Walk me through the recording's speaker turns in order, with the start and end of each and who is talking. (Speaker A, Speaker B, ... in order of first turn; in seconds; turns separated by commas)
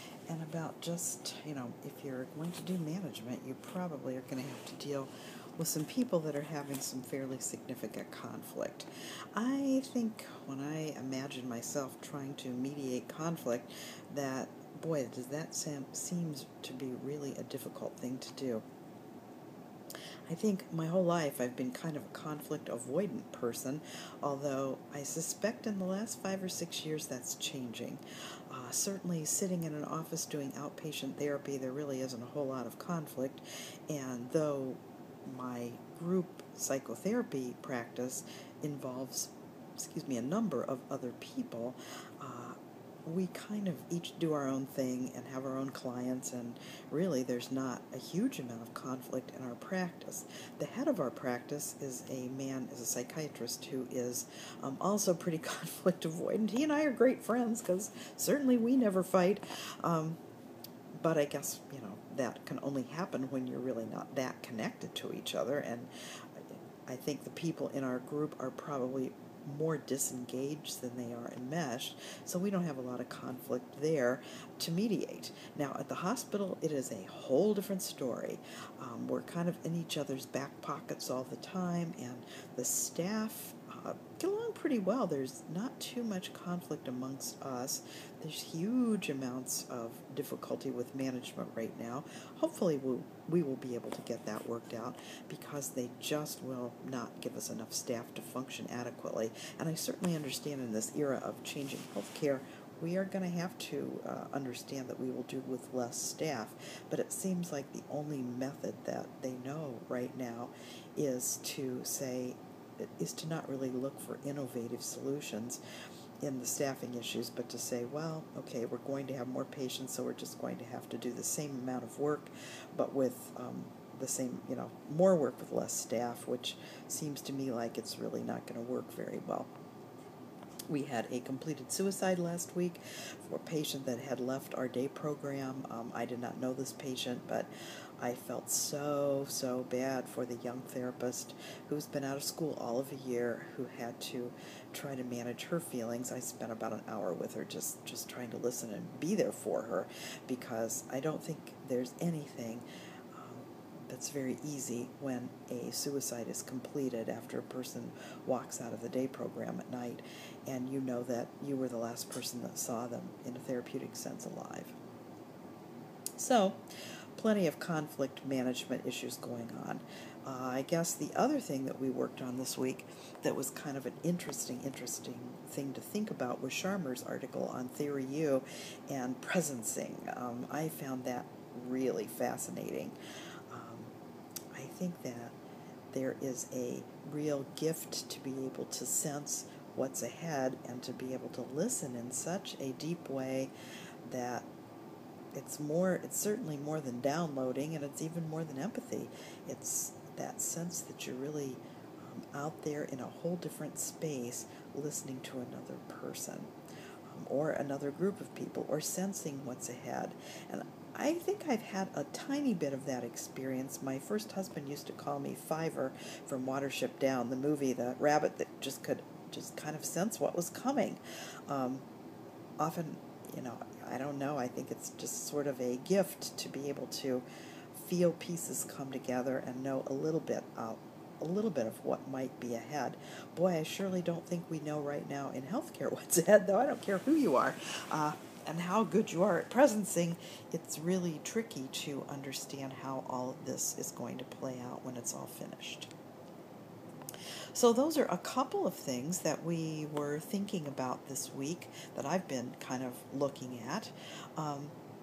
Speaker A: 0.3-18.6, Speaker A: 20.3-60.2, Speaker A: 60.9-115.6, Speaker A: 116.2-129.5, Speaker A: 130.7-164.8, Speaker A: 166.2-166.6, Speaker A: 167.2-182.9, Speaker A: 183.5-183.9, Speaker A: 184.5-185.3, Speaker A: 185.9-193.5, Speaker A: 194.0-194.5, Speaker A: 195.3-206.5, Speaker A: 207.1-221.8, Speaker A: 222.6-245.9, Speaker A: 247.5-254.7